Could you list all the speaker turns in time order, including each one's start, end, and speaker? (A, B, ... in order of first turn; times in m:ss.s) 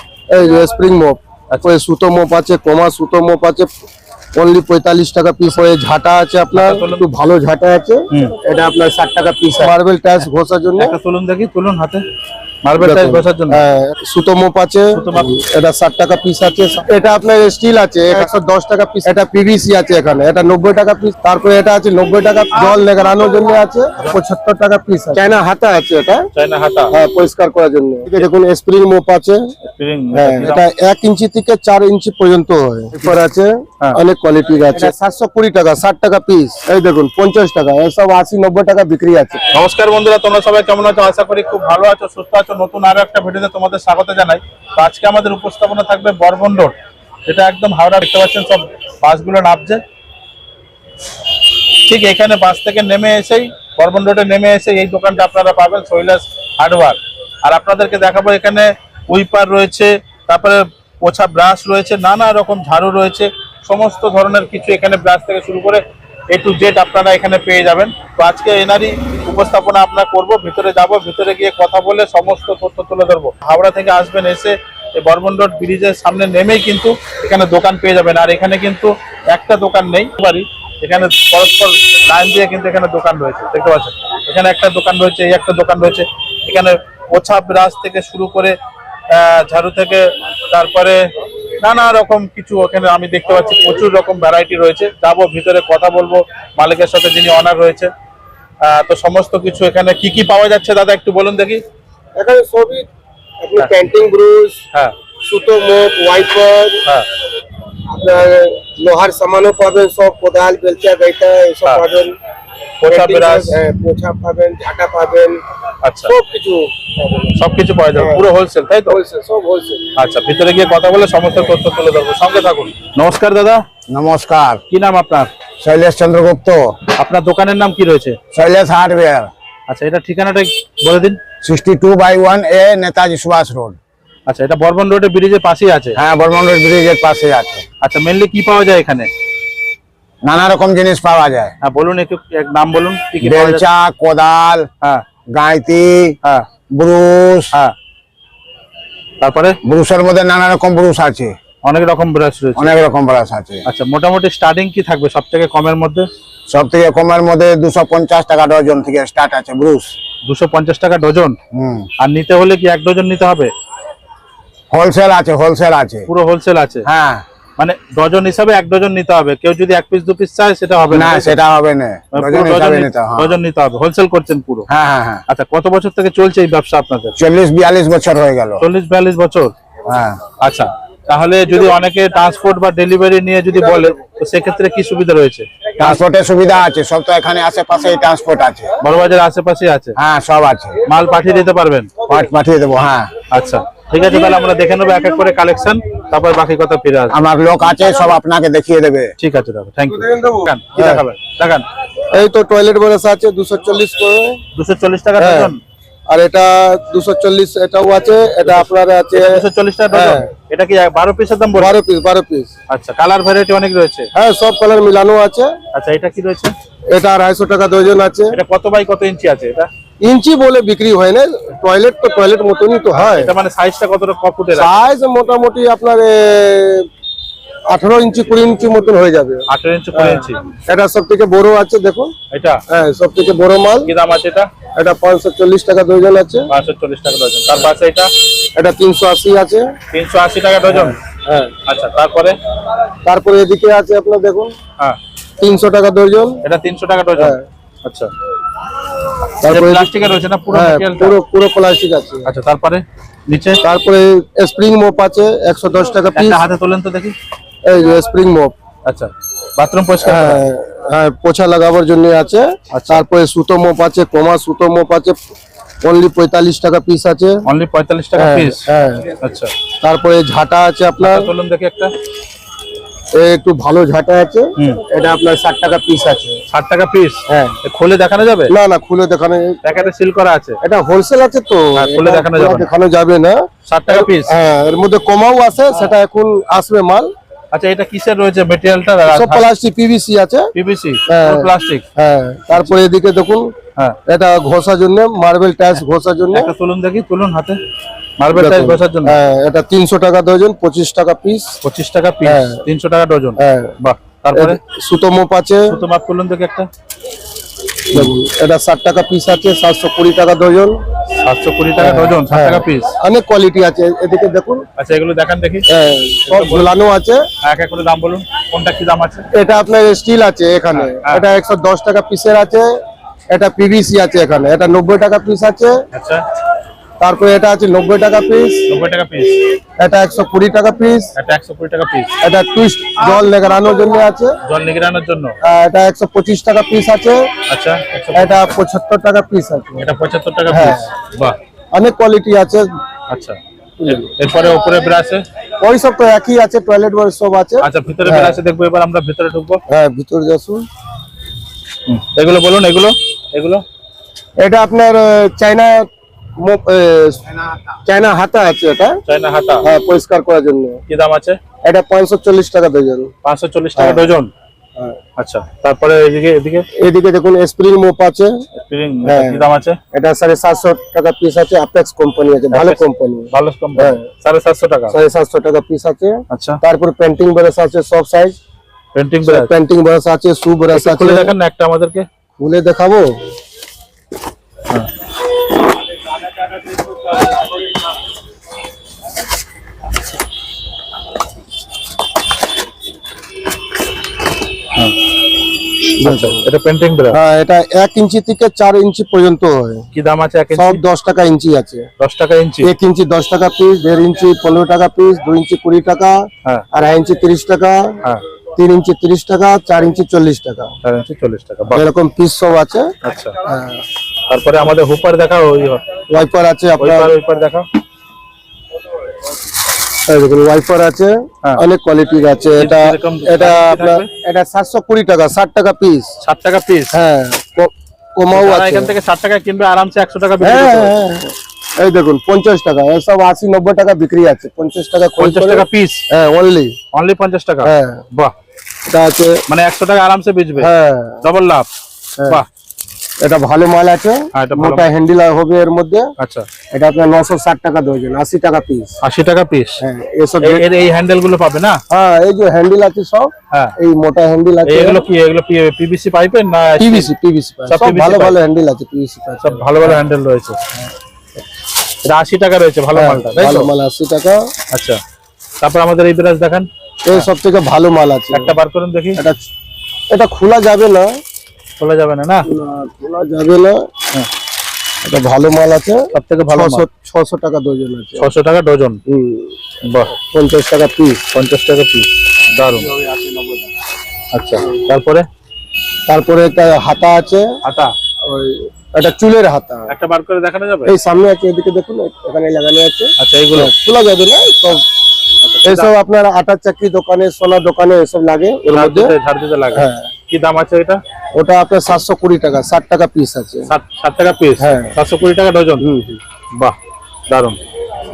0:00.3-0:03.7 A
0:04.3-0:11.0 A
0:06.5-0:07.0 B
0:08.1-0:08.4 B
0:10.8-0:12.0 B
0:12.6-0:13.6 B
0:12.8-0:26.3 A
0:14.9-0:15.3 B
0:26.3-0:26.9 B
0:26.9-0:29.4 A
0:29.6-0:30.6 B
0:30.1-0:39.4 A
0:39.5-0:49.8 B
0:51.8-1:28.6 B
1:29.1-1:31.0 B
1:31.6-1:37.9 B
1:38.6-1:41.6 B
1:42.2-1:42.9 A
1:43.4-1:44.6 A
1:45.2-1:46.8 A
1:47.9-1:52.1 A
1:52.8-1:53.6 B
1:52.9-1:55.4 A
1:55.8-1:56.1 B
1:56.1-1:57.3 A
1:57.3-1:59.0 B
1:57.9-1:58.2 A
1:58.9-1:59.9 A
2:00.0-2:03.6 B
2:03.9-2:04.6 C
2:04.7-2:05.3 B
2:05.6-2:06.8 C
2:07.0-2:08.2 B
2:08.3-2:09.3 C
2:09.7-2:11.2 B
2:11.4-2:13.8 C
2:14.3-2:16.0 B
2:16.0-2:17.6 C
2:17.8-2:19.1 B
2:20.2-2:21.5 C
2:21.6-2:23.6 B
2:23.2-2:24.7 C
2:25.3-2:26.2 C
2:26.7-2:27.5 C
2:29.2-2:29.6 B
2:29.6-2:31.3 C
2:31.6-2:32.8 B
2:32.6-2:33.6 C
2:33.6-2:36.1 B
2:36.5-2:39.9 C
2:40.2-2:41.4 B
2:41.5-2:41.9 C
2:42.0-2:43.5 B
2:44.7-2:46.1 C
2:46.1-2:46.9 B
2:46.8-2:47.2 C
2:47.6-2:51.4 B
2:50.9-2:53.4 C
2:52.1-2:54.7 B
2:54.7-2:55.2 C
2:55.3-2:57.2 B
2:57.2-2:58.6 C
2:58.6-2:59.5 B
2:59.8-3:00.2 C
3:00.4-3:06.0 B
3:05.8-3:08.7 C
3:08.8-3:10.0 B
3:10.0-3:10.8 C
3:10.8-3:11.9 B
3:12.0-3:13.1 C
3:13.3-3:17.2 B
3:17.1-3:19.1 C
3:19.2-3:21.6 B
3:19.9-3:21.0 A
3:22.1-3:24.4 A
3:24.5-3:25.6 B
3:25.2-3:25.5 A
3:26.1-3:30.3 A
3:28.4-3:31.8 B
3:31.5-3:32.5 A
3:32.7-3:34.1 B
3:34.1-3:35.5 A
3:35.7-3:36.5 B
3:36.9-3:38.4 A
3:38.3-3:39.7 B
3:40.0-3:43.3 A
3:42.9-3:44.7 B
3:44.5-3:46.9 A
3:47.7-3:52.1 A
3:49.5-3:50.4 B
3:52.3-3:52.6 B
3:52.7-3:53.9 A
3:53.8-3:54.5 B
3:54.7-3:56.5 A
3:56.5-3:58.1 B
3:58.5-3:59.6 A
3:59.9-4:01.0 B
4:00.6-4:01.5 A
4:01.6-4:02.4 B
4:03.0-4:04.5 A
4:05.4-4:06.4 A
4:06.4-4:08.1 B
4:07.2-4:07.4 A
4:09.4-4:09.9 A
4:09.4-4:11.2 B
4:10.5-4:12.3 A
4:12.2-4:13.6 B
4:13.6-4:16.4 A
4:16.1-4:17.2 B
4:17.6-4:18.5 A
4:18.8-4:20.4 B
4:20.0-4:25.2 A
4:22.7-4:23.0 B
4:25.8-4:27.4 A
4:27.4-4:28.6 B
4:28.1-4:29.2 A
4:29.2-4:29.5 B
4:29.8-4:31.3 A
4:31.0-4:31.9 B
4:33.1-4:36.4 A
4:34.6-4:34.8 B
4:36.5-4:38.5 B
4:37.3-4:37.6 A
4:38.5-4:39.6 A
4:39.6-4:40.6 B
4:40.6-4:47.1 A
4:41.7-4:42.7 B
4:43.7-4:44.3 B
4:47.5-4:49.5 B
4:49.1-4:50.5 A
4:50.5-4:51.8 B
4:51.1-4:53.5 A
4:54.1-4:56.5 A
4:56.3-4:57.6 B
4:58.2-4:59.2 B
4:58.3-5:01.6 A
5:01.6-5:04.6 B
5:02.2-5:02.6 A
5:03.4-5:03.7 A
5:04.3-5:05.7 A
5:05.7-5:06.7 B
5:07.9-5:10.8 A
5:11.2-5:12.9 B
5:11.8-5:14.6 A
5:14.8-5:15.7 B
5:15.7-5:17.2 A
5:16.2-5:16.7 B
5:17.4-5:19.3 B
5:19.3-5:22.8 A
5:20.7-5:21.2 B
5:23.3-5:25.8 A
5:25.9-5:26.2 B
5:27.0-5:28.6 A
5:28.7-5:29.4 B
5:29.8-5:31.1 A
5:31.2-5:32.1 B
5:32.2-5:34.4 A
5:34.4-5:35.4 B
5:35.4-5:37.3 A
5:37.5-5:38.5 B
5:38.1-5:39.9 A
5:39.8-5:41.4 B
5:40.5-5:40.9 A
5:41.7-5:42.7 A
5:43.1-5:45.2 B
5:43.8-5:44.1 A
5:45.6-5:48.4 A
5:47.6-5:49.6 B
5:49.7-5:50.6 A
5:51.9-5:53.6 B
5:54.4-5:55.9 A
5:56.4-5:57.2 A
5:57.8-5:59.0 A
5:59.0-5:59.6 B
5:59.6-6:00.8 A
6:00.9-6:01.4 B
6:01.6-6:03.1 A
6:03.2-6:04.3 B
6:03.8-6:04.1 A
6:05.2-6:06.7 B
6:06.8-6:08.3 A
6:08.6-6:09.8 B
6:09.0-6:14.0 A
6:12.5-6:15.0 B
6:14.9-6:18.4 A
6:16.3-6:16.6 B
6:18.9-6:19.5 B
6:19.2-6:21.3 A
6:20.7-6:22.1 B
6:22.4-6:23.1 A
6:36.0-6:36.4 A
6:36.0-6:37.2 B
6:37.1-6:39.9 A
6:39.9-6:40.8 B
6:40.5-6:41.9 A
6:42.0-6:42.7 B
6:42.6-6:48.0 A
6:48.6-6:50.7 A
6:50.8-6:51.8 B
6:51.7-6:53.8 A
6:53.0-6:53.4 B
6:54.3-6:56.2 B
6:56.1-6:57.1 A
6:56.8-6:57.6 B
7:00.0-7:06.1 A
7:02.6-7:04.1 B
7:06.2-7:06.9 B
7:06.9-7:08.9 A
7:08.3-7:10.9 B
7:10.4-7:16.8 A
7:15.2-7:16.0 B
7:16.9-7:18.3 B
7:17.6-7:18.0 A
7:18.9-7:19.4 A
7:19.5-7:20.7 B
7:20.6-7:21.2 A
7:21.2-7:21.7 B
7:23.2-7:26.1 A
7:24.3-7:24.8 B
7:26.2-7:26.5 B
7:26.7-7:29.0 A
7:29.0-7:29.8 B
7:29.8-7:30.6 A
7:30.4-7:31.8 B
7:31.9-7:35.0 A
7:34.6-7:37.1 B
7:36.8-7:40.0 A
7:37.7-7:38.4 B
7:39.4-7:40.6 B
7:42.0-7:43.7 B
7:42.9-7:44.5 A
7:44.7-7:45.0 B
7:45.6-7:47.3 B
7:47.0-7:48.5 A
7:48.3-7:49.2 B
7:49.2-7:49.5 A
7:50.1-7:51.1 A
7:51.8-7:52.4 B
7:52.5-7:53.9 A
7:55.0-7:58.3 A
7:56.1-7:56.8 B
7:58.2-7:59.0 B
7:59.1-7:59.6 A
7:59.8-8:00.1 B
8:00.1-8:01.2 A
8:01.3-8:02.9 B
8:02.7-8:03.6 A
8:04.3-8:05.3 B
8:06.1-8:07.5 A
8:07.6-8:07.9 B
8:08.2-8:09.9 A
8:09.9-8:11.0 B
8:10.8-8:14.8 A
8:13.2-8:13.7 B
8:15.4-8:15.9 B
8:15.6-8:19.1 A
8:18.7-8:21.0 B
8:19.7-8:20.1 A
8:21.3-8:23.7 A
8:23.7-8:25.8 B
8:24.6-8:24.9 A
8:25.8-8:26.2 A
8:27.3-8:27.6 B